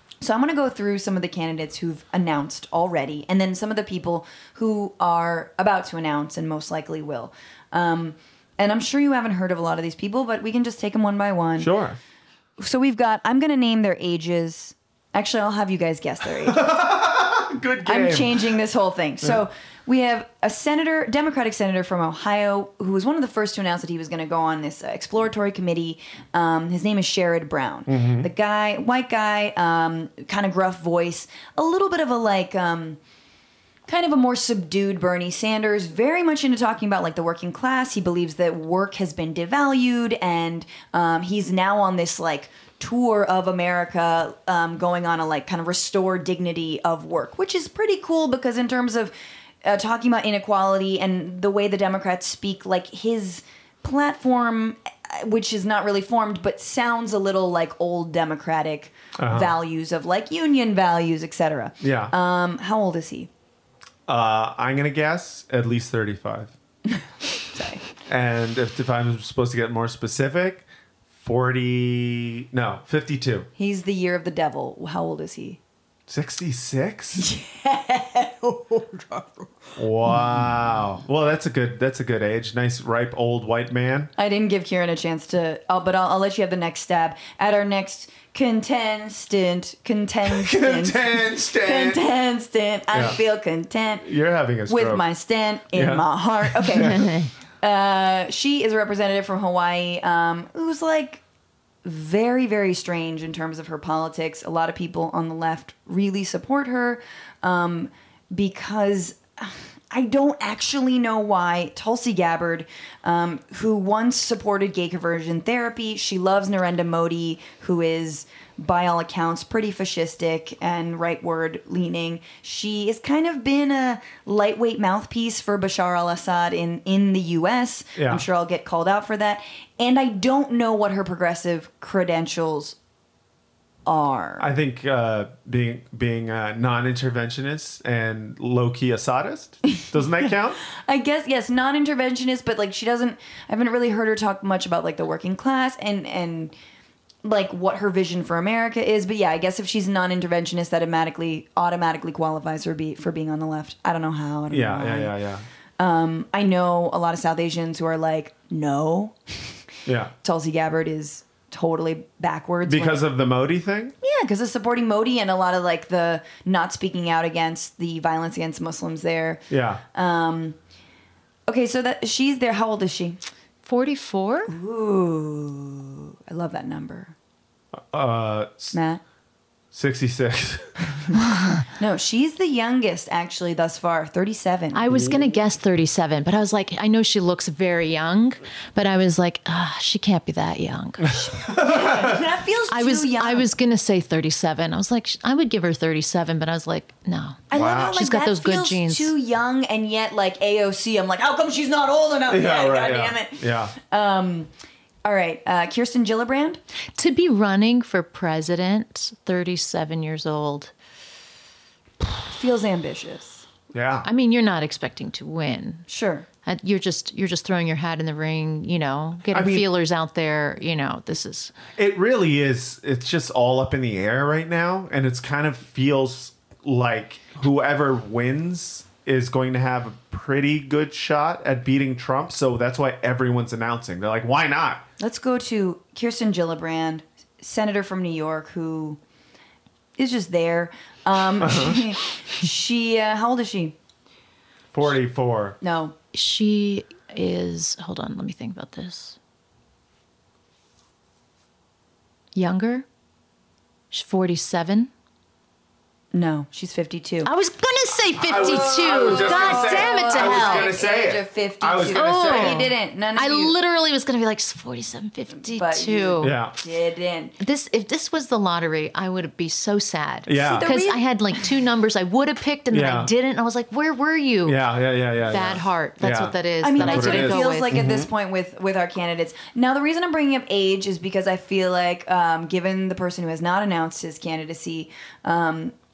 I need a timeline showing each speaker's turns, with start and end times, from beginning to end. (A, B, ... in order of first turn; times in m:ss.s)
0:00.2-0:11.7 A
0:11.6-0:12.0 B
0:12.6-0:16.8 A
0:16.5-0:18.6 B
0:17.8-0:33.0 A
0:27.9-0:28.3 B
0:33.9-0:49.1 A
0:49.6-1:03.3 A
0:59.2-0:59.5 B
1:01.8-1:02.1 B
1:04.1-1:06.5 B
1:07.5-1:07.8 A
1:08.1-1:10.6 B
1:11.2-1:13.5 B
1:13.6-1:15.6 A
1:16.1-1:17.3 B
1:17.2-1:19.6 A
1:19.8-1:24.1 B
1:20.1-1:20.4 A
1:24.2-1:34.0 A
1:30.3-1:32.0 B
1:32.9-1:33.2 B
1:34.0-1:35.0 B
1:34.7-1:37.1 A
1:35.7-1:37.1 B
1:36.8-1:37.3 C
1:37.6-1:41.2 A
1:41.8-2:12.8 A
2:08.0-2:08.2 B
2:13.9-2:14.5 A
2:14.4-2:20.6 B
2:20.7-2:26.5 A
2:27.2-2:35.2 A
2:34.5-2:35.4 B
2:35.8-2:39.6 A
2:39.9-2:40.1 B
2:40.2-2:43.1 A
2:42.7-2:43.9 B
2:44.0-2:50.6 A
2:49.5-2:49.8 B
2:51.5-2:53.2 A
2:53.6-2:54.5 C
2:54.5-2:57.2 A
2:57.9-2:58.8 B
2:58.7-2:59.0 A
2:59.7-3:01.0 B
3:01.7-3:04.8 A
3:04.7-3:11.4 C
3:04.9-3:05.2 B
3:11.1-3:13.5 A
3:11.5-3:12.2 B
3:12.7-3:19.1 C
3:17.5-3:24.5 A
3:17.5-3:18.0 B
3:22.3-3:23.7 B
3:25.0-3:26.6 A
3:27.0-3:30.7 C
3:32.0-3:33.4 A
3:33.7-3:34.1 B
3:34.0-3:35.9 C
3:35.9-3:36.3 A
3:36.4-3:41.6 C
3:39.3-3:39.7 B
3:41.8-3:54.8 B
3:55.0-3:59.0 A
4:00.0-4:03.8 A
4:01.4-4:02.0 B
4:04.7-4:05.6 B
4:05.6-4:06.0 A
4:06.1-4:09.2 C
4:12.4-4:12.9 C
4:13.9-4:14.9 C
4:16.1-4:17.3 A
4:17.2-4:20.8 C
4:18.2-4:22.7 B
4:18.5-4:23.6 A
4:21.9-4:26.4 C
4:25.4-4:27.4 A
4:26.2-4:26.5 B
4:27.4-4:34.7 C
4:30.3-4:30.7 B
4:30.4-4:31.0 A
4:32.7-4:33.1 B
4:34.4-4:38.1 B
4:35.3-4:37.8 C
4:36.6-4:45.7 A